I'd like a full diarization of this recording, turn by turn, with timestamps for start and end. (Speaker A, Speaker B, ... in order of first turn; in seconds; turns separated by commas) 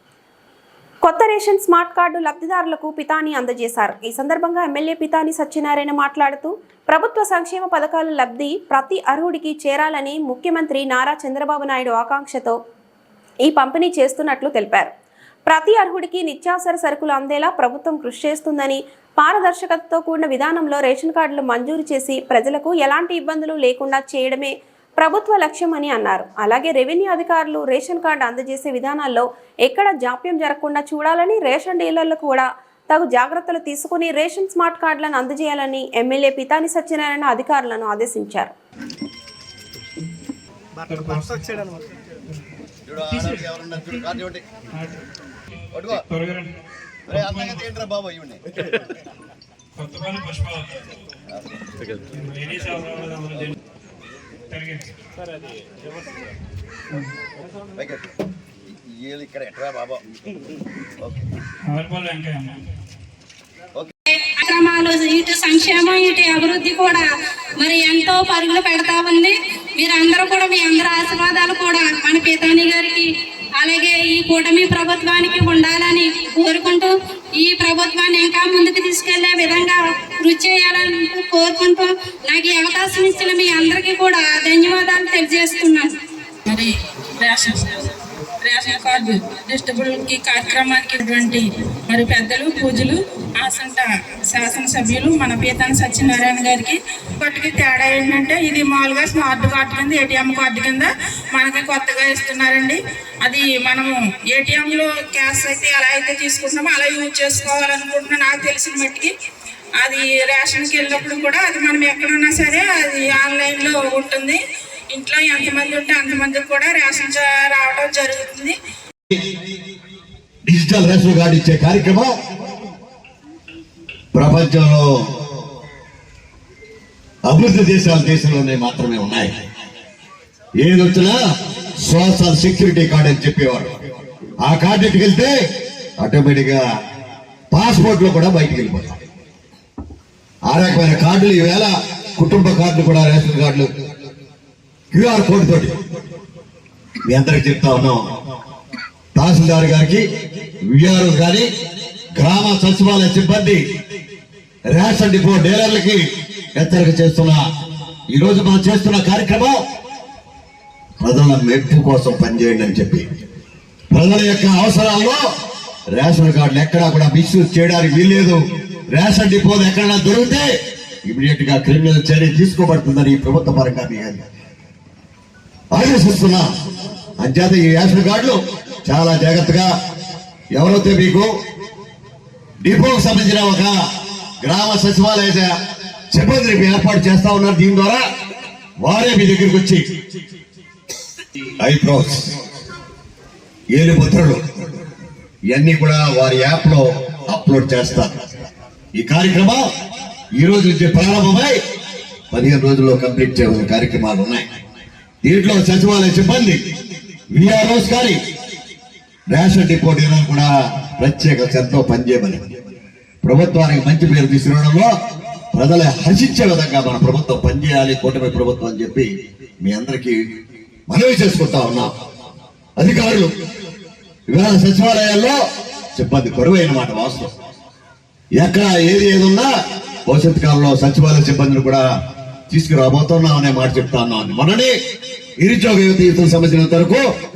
Speaker A: 1.0-12.6, Speaker A: 13.4-14.9, Speaker A: 15.5-38.5, Speaker B: 40.9-41.6, Speaker C: 42.9-44.4, Speaker B: 43.1-43.4, Speaker B: 44.7-45.0, Speaker C: 45.7-46.0, Speaker B: 45.9-46.5, Speaker C: 47.1-48.4, Speaker B: 47.1-47.5, Speaker B: 49.8-50.8, Speaker B: 52.1-53.5, Speaker B: 54.5-54.9, Speaker C: 57.8-58.1, Speaker C: 58.9-60.0, Speaker B: 61.7-62.6, Speaker D: 64.1-67.0, Speaker D: 67.6-73.0, Speaker D: 73.6-85.9, Speaker E: 86.5-109.1, Speaker E: 109.8-118.6, Speaker C: 120.5-122.1, Speaker C: 124.1-124.9, Speaker C: 127.2-129.3, Speaker C: 130.6-131.2, Speaker C: 131.8-133.7, Speaker C: 134.4-135.3, Speaker C: 136.0-136.6, Speaker C: 137.5-139.0, Speaker C: 140.5-143.7, Speaker C: 144.9-145.7, Speaker C: 147.1-148.0, Speaker C: 149.1-150.0, Speaker C: 150.7-151.5, Speaker C: 152.1-153.6, Speaker C: 154.7-156.0, Speaker C: 156.5-157.4, Speaker C: 158.1-159.5, Speaker C: 161.0-163.1, Speaker C: 163.9-165.2, Speaker C: 165.9-168.4, Speaker C: 168.9-170.5, Speaker C: 171.1-174.2, Speaker C: 175.7-176.5, Speaker C: 177.2-179.7, Speaker C: 180.5-181.3, Speaker C: 182.6-183.7, Speaker C: 184.4-185.5, Speaker C: 186.1-188.0, Speaker C: 188.8-189.8, Speaker C: 191.6-192.3, Speaker C: 193.7-194.4, Speaker C: 195.5-198.3, Speaker C: 198.9-199.6, Speaker C: 200.3-201.6, Speaker C: 202.3-204.5, Speaker C: 205.2-206.6, Speaker C: 207.3-208.2, Speaker C: 209.3-212.4, Speaker C: 213.2-214.9, Speaker C: 215.5-219.1, Speaker C: 219.6-220.2, Speaker C: 220.9-221.9, Speaker C: 222.8-223.3, Speaker C: 224.3-225.3, Speaker C: 225.9-227.3, Speaker C: 228.3-229.5, Speaker C: 230.1-231.8, Speaker C: 232.5-234.7, Speaker C: 235.4-237.0